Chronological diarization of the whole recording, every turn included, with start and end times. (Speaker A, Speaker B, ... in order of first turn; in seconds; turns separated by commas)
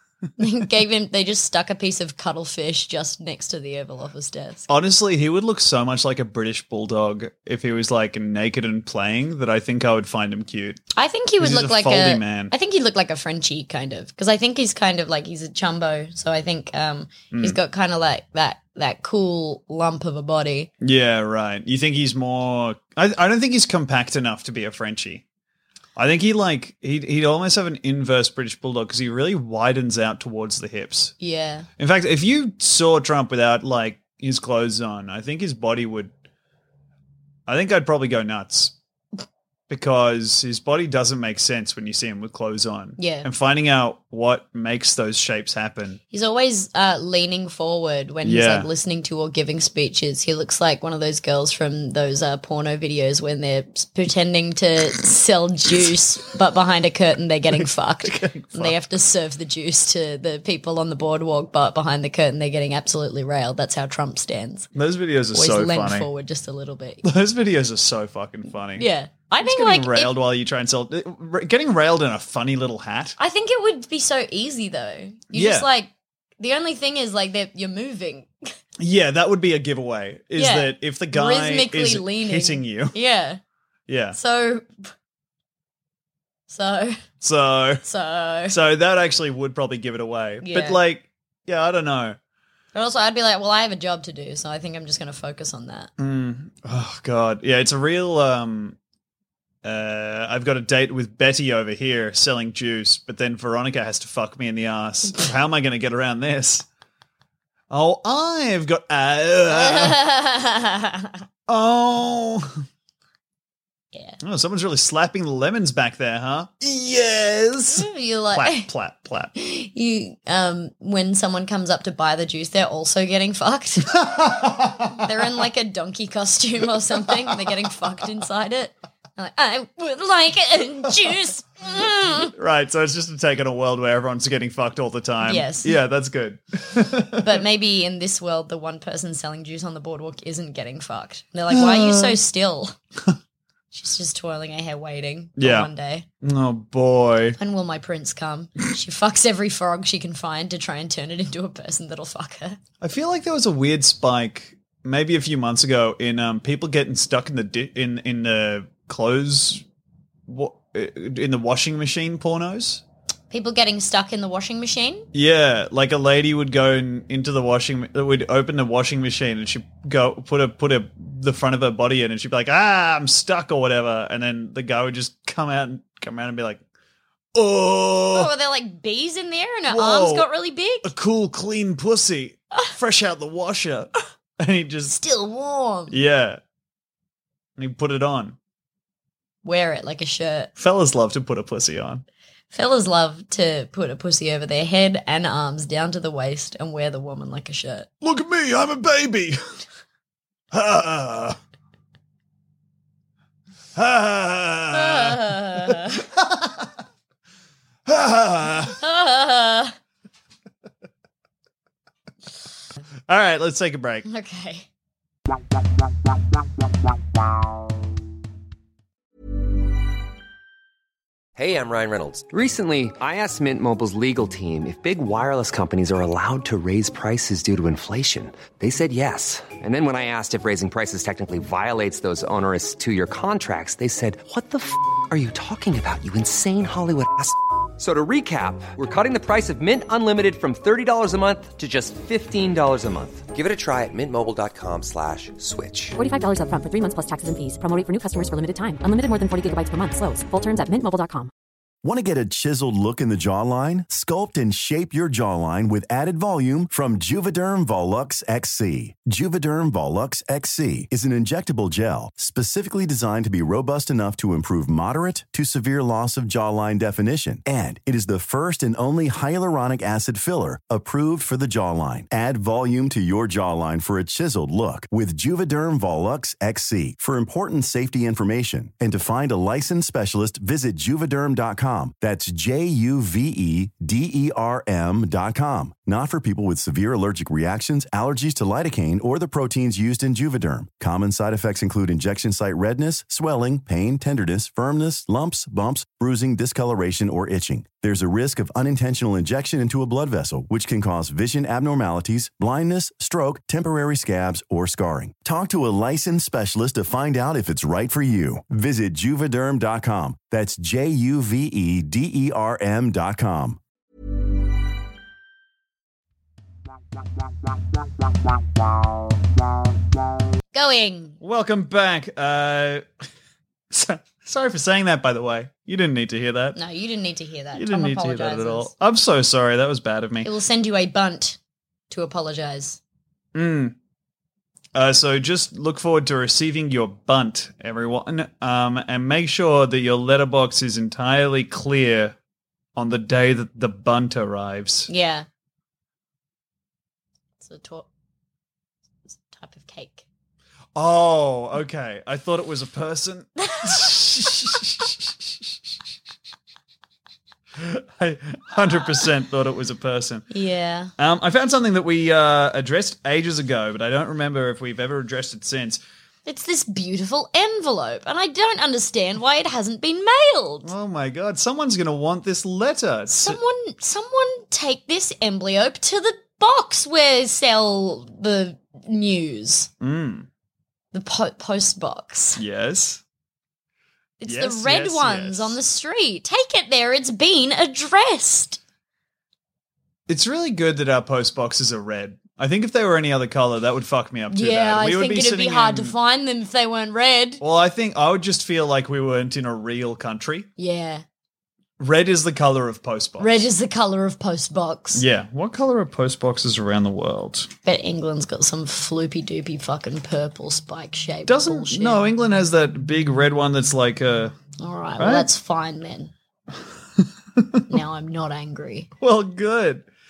Speaker A: 0.4-4.7, Speaker B: 4.7-10.8, Speaker A: 11.0-20.7, Speaker B: 11.4-12.5, Speaker B: 17.3-17.6, Speaker B: 20.8-25.2, Speaker B: 26.0-31.1, Speaker A: 31.2-31.7, Speaker B: 31.8-36.1, Speaker B: 37.5-38.8, Speaker B: 39.7-46.0, Speaker A: 43.0-43.3, Speaker A: 46.1-64.7, Speaker B: 48.2-48.7, Speaker B: 57.5-58.8, Speaker B: 64.8-66.1, Speaker A: 65.3-67.0, Speaker B: 67.0-68.9, Speaker A: 68.8-70.1, Speaker B: 69.4-73.2, Speaker A: 73.2-78.3, Speaker B: 75.3-75.7, Speaker B: 78.8-83.0, Speaker A: 80.4-83.4, Speaker B: 83.9-84.2, Speaker A: 84.2-84.9, Speaker A: 86.5-87.0, Speaker B: 87.2-87.8, Speaker A: 87.8-88.6, Speaker B: 88.5-92.2, Speaker A: 90.4-90.8, Speaker A: 92.7-95.9, Speaker B: 96.0-98.8, Speaker B: 99.6-106.7, Speaker B: 107.7-110.0, Speaker A: 109.5-111.2, Speaker B: 111.5-112.6, Speaker A: 113.9-114.2, Speaker B: 114.2-119.3, Speaker A: 117.7-118.7, Speaker A: 119.4-124.0, Speaker B: 123.9-125.0, Speaker A: 124.9-132.3, Speaker B: 132.3-137.4, Speaker A: 135.2-135.8, Speaker A: 137.2-142.8, Speaker B: 141.5-142.2, Speaker A: 143.7-146.1, Speaker B: 145.4-145.7, Speaker B: 146.2-147.4, Speaker A: 147.4-152.6, Speaker B: 152.8-159.6, Speaker B: 160.3-162.8, Speaker A: 163.3-165.1, Speaker B: 165.1-176.6, Speaker B: 177.3-178.3, Speaker A: 178.1-180.9, Speaker B: 179.7-180.3, Speaker B: 180.8-185.0, Speaker A: 185.0-186.0, Speaker B: 185.9-186.4, Speaker B: 187.6-188.4, Speaker A: 189.4-190.5, Speaker B: 190.6-192.1, Speaker A: 192.5-197.9, Speaker B: 198.0-199.4, Speaker B: 200.5-201.4, Speaker B: 203.8-206.7, Speaker A: 204.7-206.1, Speaker B: 207.9-208.8, Speaker A: 208.8-209.8, Speaker B: 213.1-214.1, Speaker A: 214.1-214.7, Speaker C: 221.4-246.0, Speaker D: 246.0-251.3, Speaker E: 251.8-313.6, Speaker A: 320.5-321.2, Speaker B: 321.2-322.9, Speaker B: 323.7-326.6, Speaker A: 326.6-328.7, Speaker B: 327.5-330.3, Speaker A: 330.2-331.4, Speaker A: 331.9-332.8, Speaker B: 333.3-333.8, Speaker B: 334.7-342.2, Speaker B: 342.8-344.9, Speaker A: 344.9-345.3, Speaker A: 347.4-347.9, Speaker A: 349.1-350.1, Speaker B: 350.8-355.5, Speaker A: 353.4-354.3, Speaker B: 357.6-360.3, Speaker A: 360.3-360.9, Speaker B: 361.0-365.8, Speaker A: 366.3-370.7, Speaker B: 370.6-373.4, Speaker A: 373.1-379.7, Speaker B: 379.8-380.3, Speaker A: 380.9-382.4, Speaker B: 382.4-383.0, Speaker A: 384.2-388.6, Speaker B: 384.2-385.6, Speaker B: 390.1-395.9, Speaker A: 394.3-397.4, Speaker B: 397.4-400.5, Speaker A: 400.6-401.0, Speaker B: 401.8-403.5, Speaker A: 403.2-405.0, Speaker B: 404.9-407.5, Speaker A: 407.6-412.1, Speaker B: 411.3-414.4, Speaker A: 414.6-416.1, Speaker B: 415.0-415.3, Speaker B: 417.0-417.6, Speaker A: 417.7-418.9, Speaker B: 419.0-419.9